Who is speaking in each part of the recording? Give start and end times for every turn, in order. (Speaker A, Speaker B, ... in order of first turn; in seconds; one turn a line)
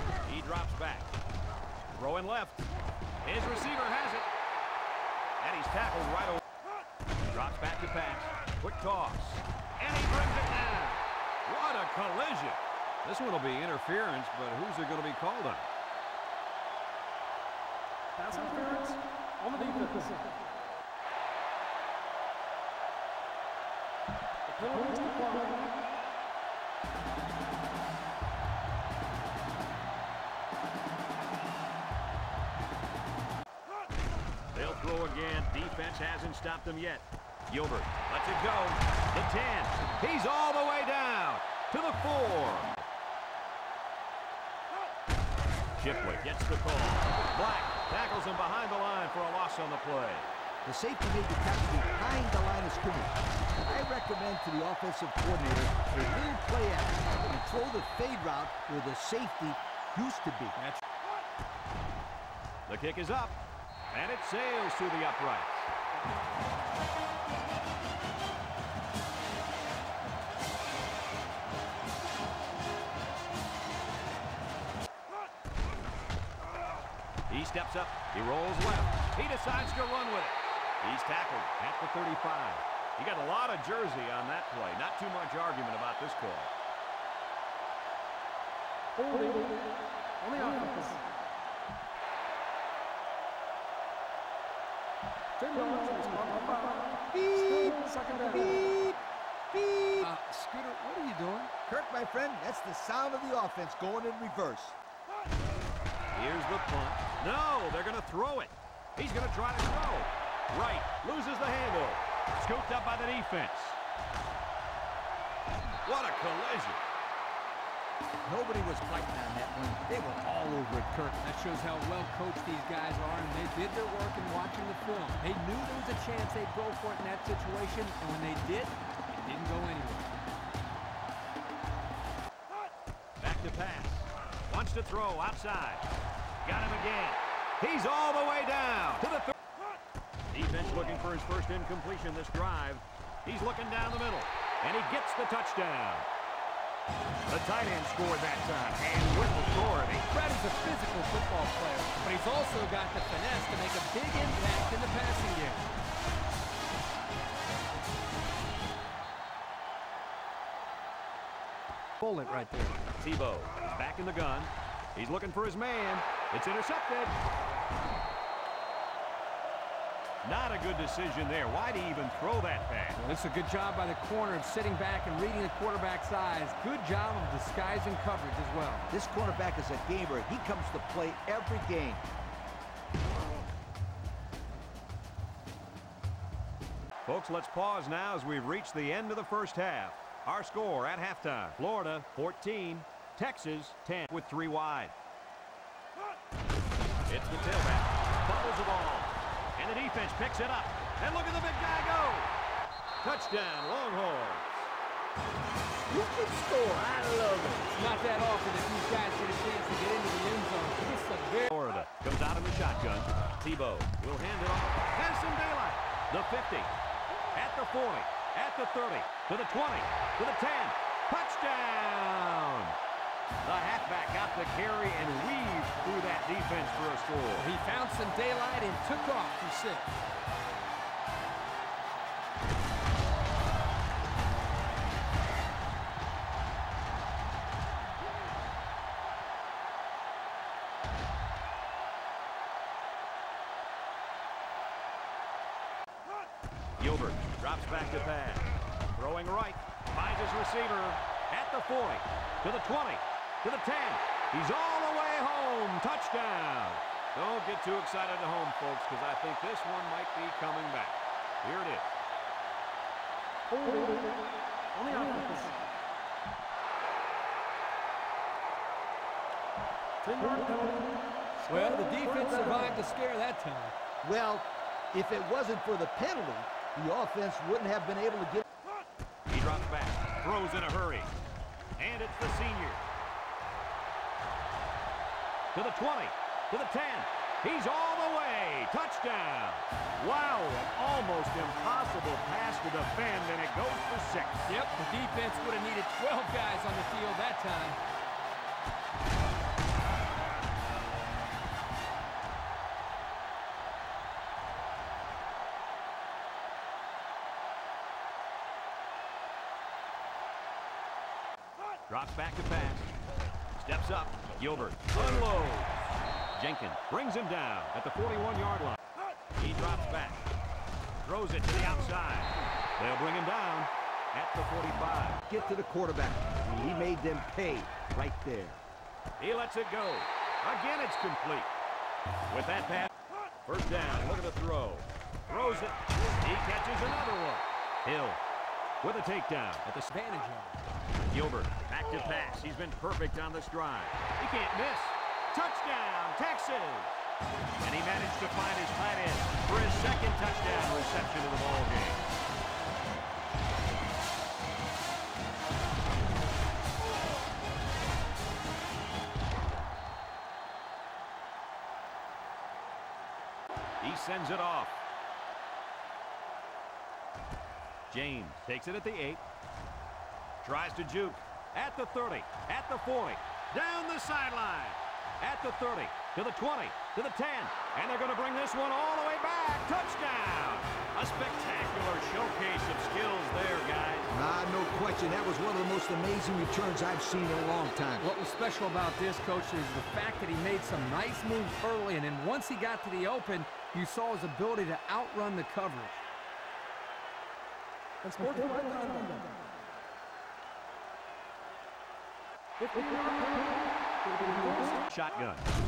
Speaker A: 0.3-1.1
Speaker A: 1.9-2.7
Speaker A: 3.2-4.3
Speaker A: 5.4-6.4
Speaker A: 7.3-15.7
Speaker B: 18.2-20.1
Speaker C: 18.4-18.7
Speaker B: 24.5-25.1
Speaker A: 34.5-42.8
Speaker A: 45.8-50.3
Speaker D: 50.6-60.6
Speaker B: 60.6-60.8
Speaker A: 62.7-63.4
Speaker A: 63.9-65.7
Speaker A: 77.3-86.5
Speaker C: 89.1-89.4
Speaker C: 90.2-90.9
Speaker B: 90.3-91.0
Speaker C: 95.4-96.6
Speaker B: 95.5-96.8
Speaker D: 97.1-99.0
Speaker D: 99.5-100.1
Speaker B: 100.0-101.5
Speaker D: 101.7-104.8
Speaker A: 106.1-113.8
Speaker A: 115.9-116.8
Speaker D: 118.3-121.2
Speaker B: 121.2-130.1
Speaker A: 133.2-135.9
Speaker A: 136.4-139.3
Speaker A: 140.3-146.1
Speaker A: 147.3-150.1
Speaker B: 150.1-155.7
Speaker B: 162.0-162.8
Speaker A: 163.0-167.2
Speaker A: 170.2-173.0
Speaker B: 173.0-178.9
Speaker D: 178.9-182.0
Speaker A: 187.1-194.9
Speaker A: 197.1-202.3
Speaker A: 203.0-204.7
Speaker D: 205.9-207.7
Speaker B: 207.7-211.5
Speaker A: 211.4-216.7
Speaker A: 217.3-222.8
Speaker A: 223.4-227.5
Speaker B: 227.4-229.9
Speaker A: 246.8-261.9
Speaker C: 263.6-264.0
Speaker C: 264.8-265.5
Speaker B: 265.2-265.5
Speaker C: 270.1-270.7
Speaker B: 270.1-270.7
Speaker B: 271.5-273.8
Speaker D: 274.0-278.4
Speaker A: 279.3-281.1
Speaker A: 281.8-282.8
Speaker A: 285.5-294.5
Speaker B: 294.5-297.8
Speaker A: 311.9-312.9
Speaker A: 313.6-318.8
Speaker A: 319.4-320.2
Speaker A: 321.0-325.2
Speaker D: 325.3-328.6
Speaker A: 329.2-331.5
Speaker A: 332.3-332.9
Speaker A: 333.4-338.2
Speaker A: 338.8-339.9
Speaker B: 339.9-340.6
Speaker A: 341.1-347.0
Speaker A: 347.6-352.1
Speaker A: 363.8-364.8
Speaker A: 367.9-369.2
Speaker A: 370.4-384.1
Speaker D: 384.1-388.1
Speaker B: 388.0-396.0
Speaker B: 398.1-399.0
Speaker A: 404.9-405.5